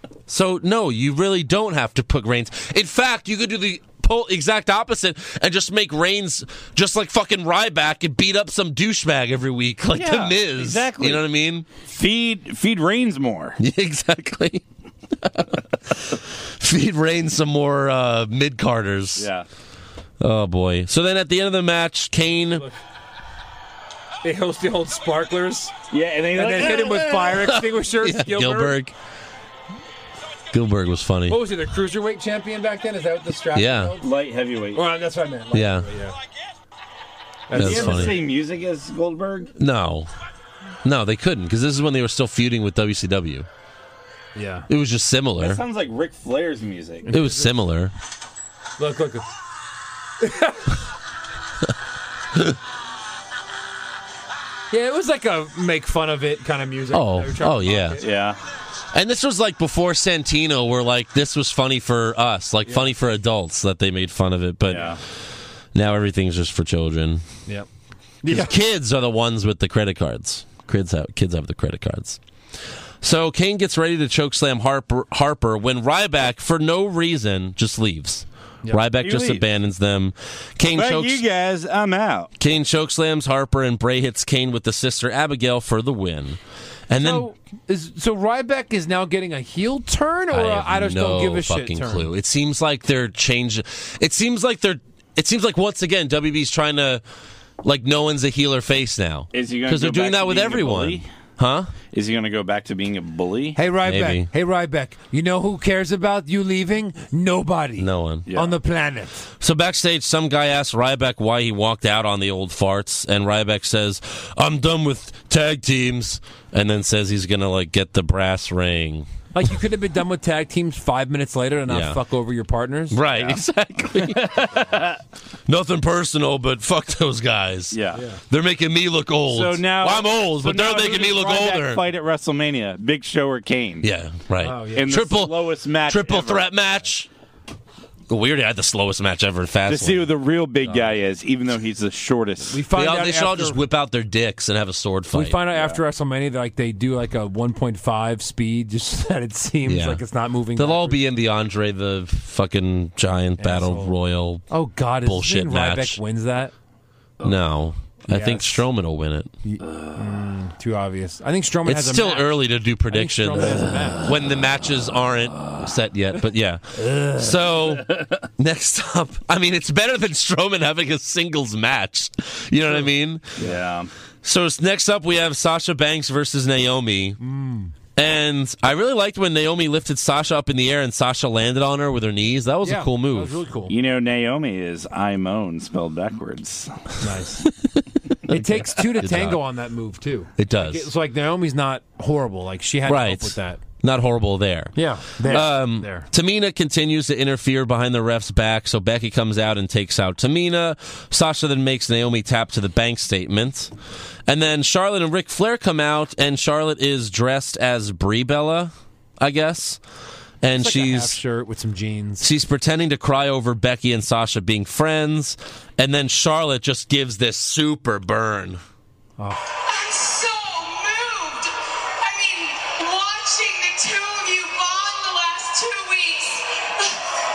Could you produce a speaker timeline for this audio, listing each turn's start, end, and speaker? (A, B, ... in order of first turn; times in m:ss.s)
0:00.3-0:11.6 A
0:09.9-0:11.2 B
0:11.9-0:13.6 B
0:13.6-0:14.6 A
0:15.2-0:19.3 A
0:19.2-0:19.4 B
0:20.2-0:22.6 A
0:24.2-0:25.7 C
0:25.9-0:27.4 B
0:26.3-0:28.8 C
0:27.1-0:28.9 A
0:30.5-0:31.4 A
0:31.3-0:34.0 C
0:33.5-0:33.9 A
0:34.0-0:34.8 B
0:34.7-0:36.2 C
0:35.5-0:35.9 A
0:37.5-0:38.2 C
0:37.5-0:38.2 A
0:37.5-0:39.5 B
0:39.6-0:40.1 A
0:40.8-0:43.5 A
0:44.3-0:44.7 C
0:44.7-0:45.6 A
0:45.4-0:47.1 B
0:47.0-0:47.5 C
0:47.1-0:47.9 A
0:48.8-0:49.3 C
0:50.2-0:50.7 C
0:54.7-0:58.0 C
0:56.9-0:58.0 A
0:58.0-0:58.4 B
0:58.9-1:05.0 A
1:02.6-1:02.9 C
1:04.7-1:05.0 B
1:05.7-1:07.2 A
1:08.2-1:08.6 C
1:08.3-1:12.2 A
1:13.0-1:21.2 A
1:19.0-1:19.4 B
1:20.7-1:22.3 B
1:22.4-1:27.3 A
1:27.0-1:32.1 C
1:30.3-1:37.0 A
1:37.6-1:41.7 A
1:39.3-1:41.0 B
1:41.9-1:43.6 B
1:43.6-1:49.3 C
1:43.8-1:44.3 A
1:47.8-1:48.3 A
1:48.3-1:48.6 B
1:49.4-1:59.1 A
1:59.3-2:03.0 C
2:01.7-2:02.0 A
2:02.9-2:04.8 A
2:03.1-2:03.4 B
2:03.9-2:05.0 B
2:05.5-2:11.9 A
2:07.7-2:08.0 B
2:07.9-2:08.2 C
2:09.3-2:13.9 B
2:13.8-2:17.1 A
2:14.4-2:14.9 C
2:14.7-2:16.5 B
2:18.1-2:20.1 A
2:19.7-2:22.6 B
2:22.5-2:23.6 C
2:22.7-2:25.4 A
2:25.1-2:31.0 C
2:25.5-2:25.8 B
2:29.6-2:30.0 A
2:30.5-2:34.4 A
2:33.4-2:33.9 C
2:34.5-2:36.5 C
2:35.0-2:36.0 A
2:37.2-2:39.3 A
2:38.1-2:38.6 C
2:39.4-2:42.4 C
2:41.6-2:53.4 A
2:42.9-2:44.0 C
2:53.4-2:53.9 B
2:54.2-2:57.2 A
2:57.2-2:57.7 C
2:58.0-3:03.4 A
3:02.6-3:03.7 C
3:03.7-3:06.8 B
3:07.0-3:07.4 C
3:07.4-3:09.4 A
3:08.3-3:13.6 C
3:10.4-3:10.9 A
3:12.9-3:23.7 A
3:14.7-3:16.1 C
3:24.3-3:29.8 A
3:30.4-3:31.2 A
3:30.5-3:32.2 C
3:32.2-3:38.6 A
3:39.7-3:47.0 D